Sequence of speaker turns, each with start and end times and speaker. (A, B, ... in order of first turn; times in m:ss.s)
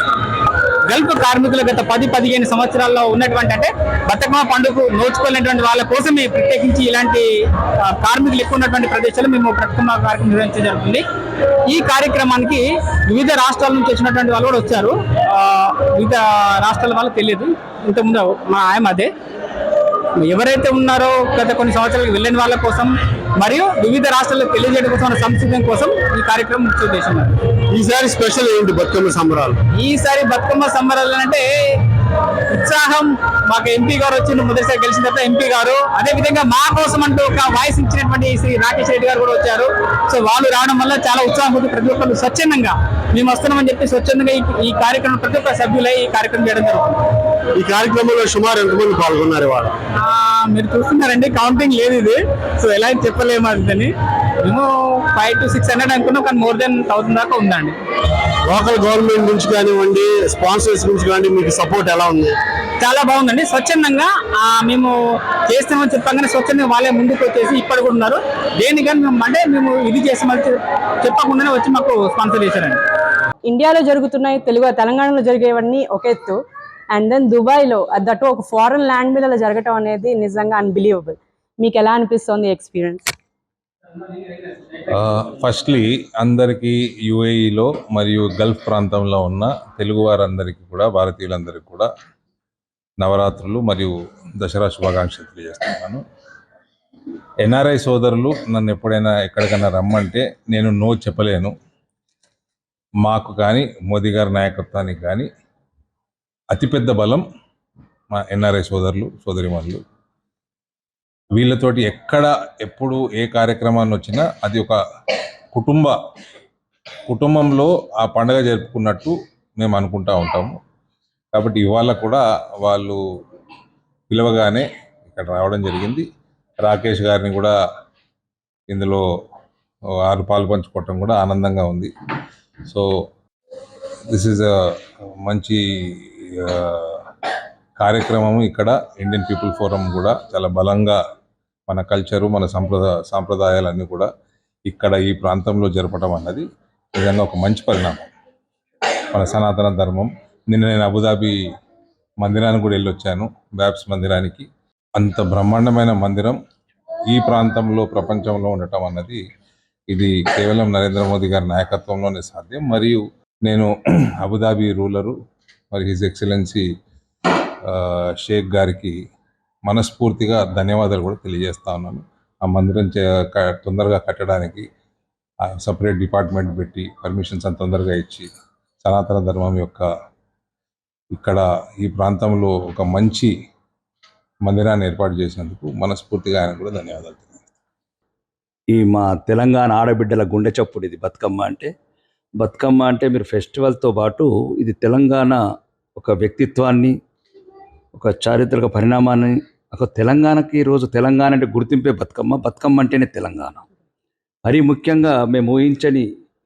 0:00.8-0:11.0 A
0:11.7-0:19.1 A
0:20.2-0:27.4 A
0:27.7-0:29.6 B
0:29.7-0:31.9 A
0:32.5-0:46.9 A
0:47.5-0:49.7 B
0:49.9-0:53.9 A
0:54.4-0:57.8 A
0:58.4-1:02.3 B
1:02.8-1:12.8 A
1:13.4-1:16.4 C
1:16.9-1:23.0 C
1:24.8-1:31.9 D
1:33.0-1:36.0 D
1:37.4-1:41.5 D
1:43.0-1:45.3 D
1:46.5-1:47.2 D
1:48.1-1:49.8 D
1:51.3-1:54.8 D
1:55.5-1:56.0 D
1:57.1-2:00.6 D
2:01.3-2:03.0 D
2:04.1-2:06.1 D
2:06.6-2:07.5 D
2:08.7-2:09.0 D
2:10.0-2:11.9 D
2:14.1-2:17.1 D
2:17.8-2:21.0 D
2:21.7-2:24.1 D
2:24.7-2:28.1 D
2:29.1-2:31.4 D
2:32.2-2:36.4 D
2:37.1-2:39.2 D
2:39.9-2:43.7 D
2:44.2-2:45.2 D
2:45.7-2:46.6 D
2:47.7-2:48.9 D
2:49.7-2:54.6 D
2:55.5-2:58.3 D
2:58.8-2:59.8 D
3:01.1-3:03.3 D
3:04.4-3:07.5 D
3:08.7-3:11.7 E
3:12.4-3:15.4 E
3:16.0-3:17.0 E
3:17.9-3:23.6 E
3:24.4-3:26.1 E